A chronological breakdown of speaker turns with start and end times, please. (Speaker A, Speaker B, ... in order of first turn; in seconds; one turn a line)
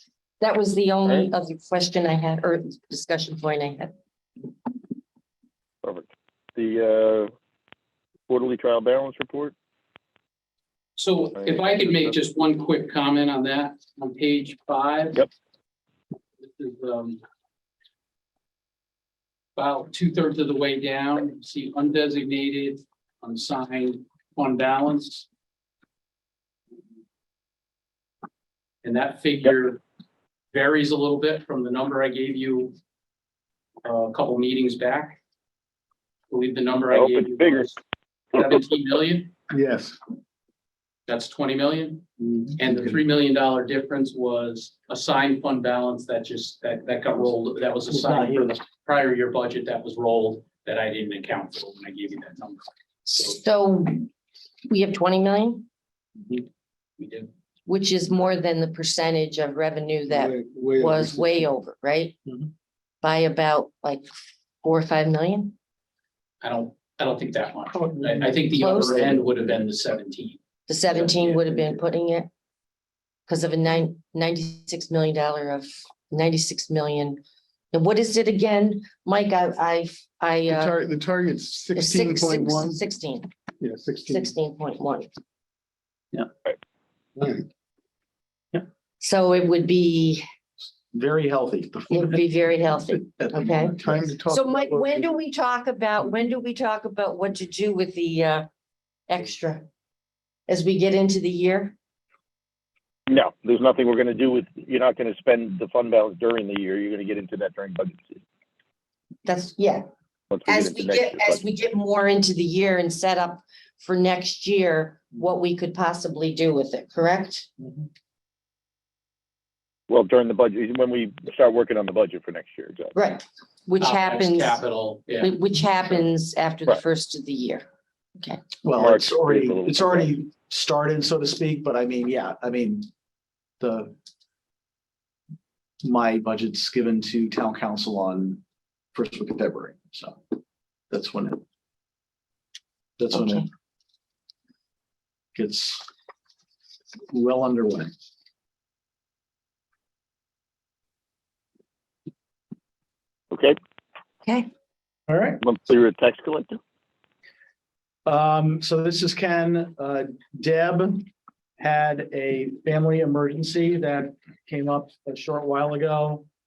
Speaker A: 0.4-3.9
Speaker B: 5.8-7.3
Speaker B: 8.3-9.5
Speaker C: 11.0-15.2
Speaker B: 11.4-11.8
Speaker C: 16.4-17.2
Speaker C: 19.6-25.3
Speaker C: 28.8-29.8
Speaker C: 30.5-32.8
Speaker C: 33.8-35.2
Speaker C: 36.3-37.8
Speaker B: 36.9-37.7
Speaker C: 38.3-39.3
Speaker D: 39.5-40.0
Speaker C: 41.1-42.1
Speaker C: 42.6-53.4
Speaker E: 47.9-48.6
Speaker A: 53.1-54.1
Speaker A: 54.7-55.7
Speaker C: 57.0-57.3
Speaker A: 57.7-62.2
Speaker D: 60.1-61.5
Speaker A: 63.0-64.1
Speaker A: 64.6-65.5
Speaker C: 66.4-70.4
Speaker E: 67.8-69.2
Speaker A: 68.6-69.1
Speaker A: 70.7-72.3
Speaker C: 70.9-71.7
Speaker A: 73.3-77.2
Speaker A: 77.7-80.7
Speaker D: 80.5-82.8
Speaker A: 81.7-83.3
Speaker D: 83.6-84.3
Speaker A: 84.1-85.1
Speaker D: 87.2-87.5
Speaker A: 89.0-90.2
Speaker E: 90.9-92.2
Speaker A: 91.9-98.5
Speaker E: 92.8-94.1
Speaker D: 93.8-95.1
Speaker A: 99.1-99.7
Speaker A: 100.5-101.8
Speaker B: 103.1-108.2
Speaker A: 109.2-109.9
Speaker B: 110.3-111.4
Speaker A: 110.5-117.5
Speaker B: 119.9-122.9
Speaker A: 123.0-124.6
Speaker C: 123.8-125.4
Speaker A: 125.2-127.7
Speaker A: 128.2-128.5
Speaker E: 128.6-132.9
Speaker B: 128.7-130.2
Speaker E: 133.6-134.0
Speaker E: 135.8-138.4
Speaker E: 138.9-140.2
Speaker E: 140.9-141.4
Speaker E: 143.0-143.5
Speaker E: 145.3-145.8
Speaker E: 147.1-147.9
Speaker B: 153.3-153.6
Speaker E: 155.1-155.4
Speaker B: 155.4-156.6
Speaker E: 158.1-166.3